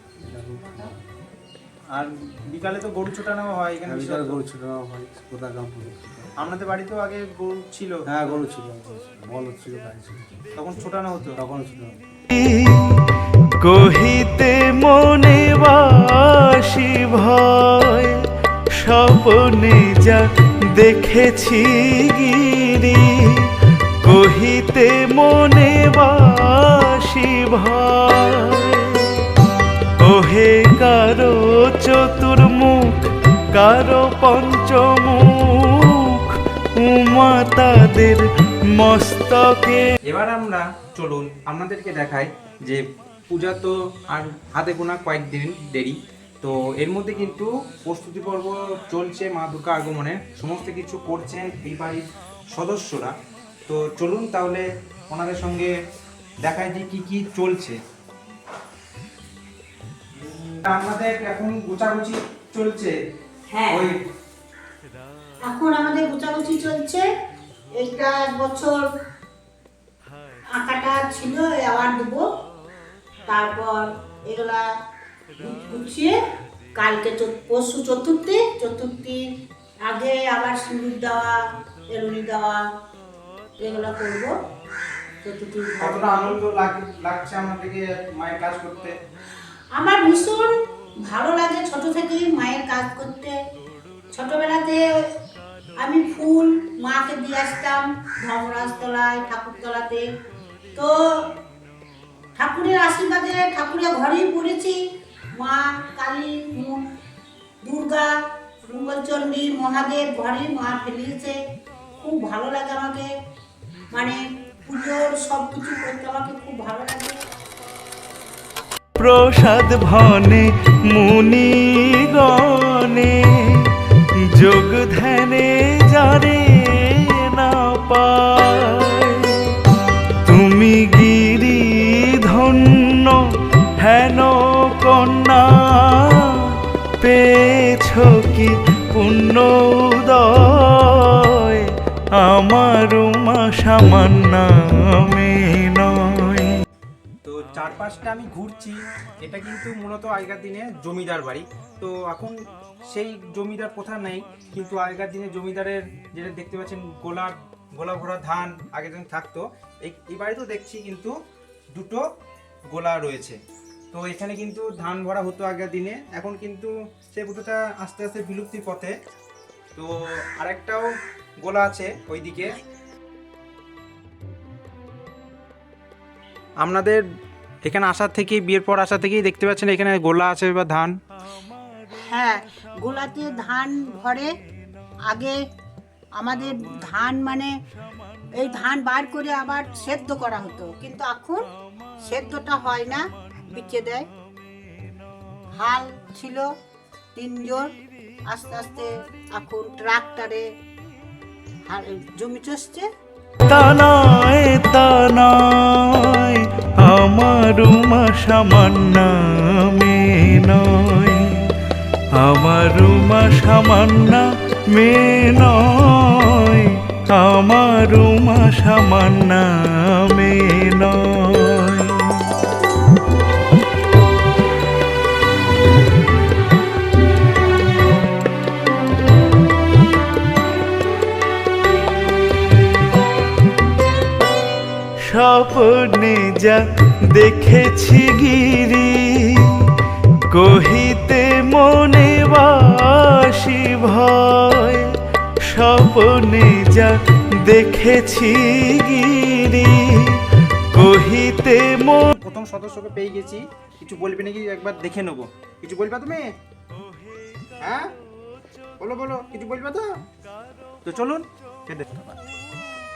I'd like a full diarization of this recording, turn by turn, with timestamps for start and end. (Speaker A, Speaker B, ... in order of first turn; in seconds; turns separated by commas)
Speaker A: 0.2-1.0, Speaker B: 0.6-0.9, Speaker C: 1.9-4.4, Speaker A: 3.9-6.5, Speaker C: 6.4-8.4, Speaker A: 8.1-10.4, Speaker C: 10.6-11.3, Speaker A: 11.4-11.9, Speaker D: 12.3-13.0, Speaker D: 13.6-18.1, Speaker D: 18.8-20.2, Speaker D: 20.7-23.5, Speaker D: 24.0-29.2, Speaker D: 30.0-39.9, Speaker C: 40.1-53.1, Speaker C: 53.7-55.7, Speaker C: 56.4-57.8, Speaker C: 60.2-62.9, Speaker B: 63.5-63.9, Speaker C: 63.7-64.0, Speaker B: 65.4-67.0, Speaker B: 67.8-68.8, Speaker B: 70.5-72.2, Speaker B: 73.3-74.6, Speaker B: 75.4-76.1, Speaker B: 76.8-79.2, Speaker B: 79.8-81.4, Speaker B: 81.9-82.6, Speaker B: 83.6-84.3, Speaker B: 85.2-86.4, Speaker C: 85.8-88.9, Speaker B: 89.7-90.5, Speaker B: 91.0-93.3, Speaker B: 94.1-94.8, Speaker B: 95.8-100.0, Speaker B: 100.7-101.4, Speaker B: 102.3-104.8, Speaker B: 105.3-106.8, Speaker B: 107.6-108.1, Speaker B: 108.6-111.4, Speaker B: 111.9-113.1, Speaker B: 113.9-117.2, Speaker D: 119.0-123.7, Speaker D: 124.3-129.6, Speaker D: 130.2-133.2, Speaker D: 133.8-146.6, Speaker C: 147.2-152.3, Speaker C: 152.9-161.1, Speaker C: 161.7-162.0, Speaker C: 162.7-163.4, Speaker C: 163.9-168.9, Speaker C: 169.7-170.9, Speaker C: 171.4-172.5, Speaker C: 176.6-177.0, Speaker C: 177.6-180.9, Speaker B: 181.9-184.3, Speaker B: 185.1-185.4, Speaker B: 186.2-187.5, Speaker B: 188.4-191.4, Speaker B: 192.0-194.1, Speaker B: 195.6-196.5, Speaker B: 197.1-197.7, Speaker B: 198.3-200.4, Speaker B: 201.7-202.8, Speaker D: 203.5-211.5, Speaker D: 212.1-222.2, Speaker D: 235.0-239.7, Speaker D: 240.3-244.9, Speaker D: 245.5-250.2, Speaker D: 250.7-252.1, Speaker C: 252.1-256.3, Speaker C: 257.6-257.9, Speaker C: 258.8-259.9, Speaker C: 260.8-262.1